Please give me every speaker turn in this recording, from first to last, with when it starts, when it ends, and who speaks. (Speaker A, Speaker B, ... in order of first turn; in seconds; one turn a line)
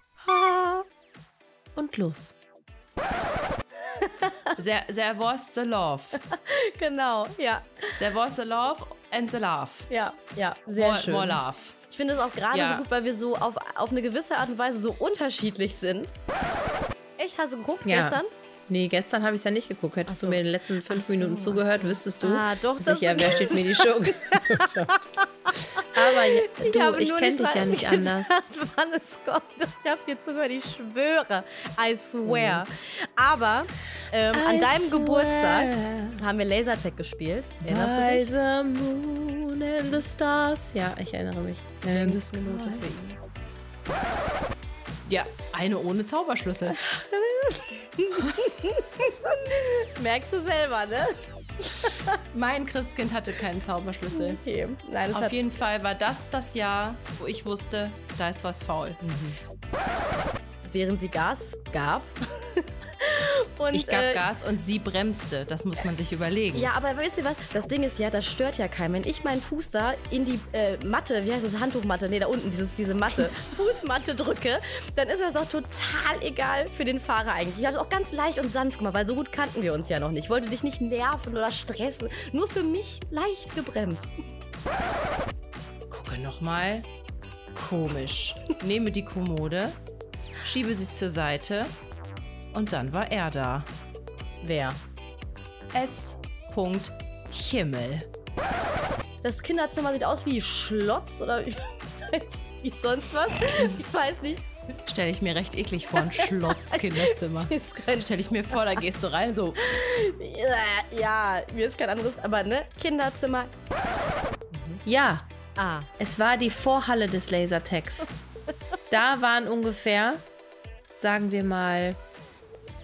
Speaker A: 0.2-0.8
Speaker B: 1.8-2.4
Speaker A: 4.0-4.6
Speaker C: 4.6-6.2
Speaker A: 6.1-8.0
Speaker C: 8.0-9.9
Speaker A: 9.9-16.1
Speaker C: 10.8-11.8
Speaker C: 12.5-12.8
Speaker A: 17.2-18.3
Speaker B: 17.9-25.0
Speaker A: 20.1-38.3
Speaker B: 25.8-28.3
Speaker C: 32.3-32.6
Speaker B: 34.3-36.2
Speaker B: 37.6-42.9
Speaker A: 41.9-43.2
Speaker C: 45.1-46.8
Speaker A: 46.8-52.2
Speaker C: 52.3-54.4
Speaker A: 54.1-55.4
Speaker C: 55.1-59.0
Speaker A: 59.0-59.4
Speaker A: 60.6-64.2
Speaker C: 63.7-66.7
Speaker A: 66.5-84.1
Speaker C: 85.9-86.9
Speaker C: 87.5-89.8
Speaker C: 90.5-91.7
Speaker C: 92.5-93.7
Speaker A: 94.4-94.8
Speaker C: 95.7-98.1
Speaker A: 99.2-104.4
Speaker C: 104.8-109.6
Speaker A: 106.0-108.8
Speaker A: 109.6-113.5
Speaker A: 114.5-114.8
Speaker B: 114.8-115.3
Speaker A: 115.6-115.9
Speaker B: 116.0-118.1
Speaker B: 118.9-120.2
Speaker B: 121.0-122.0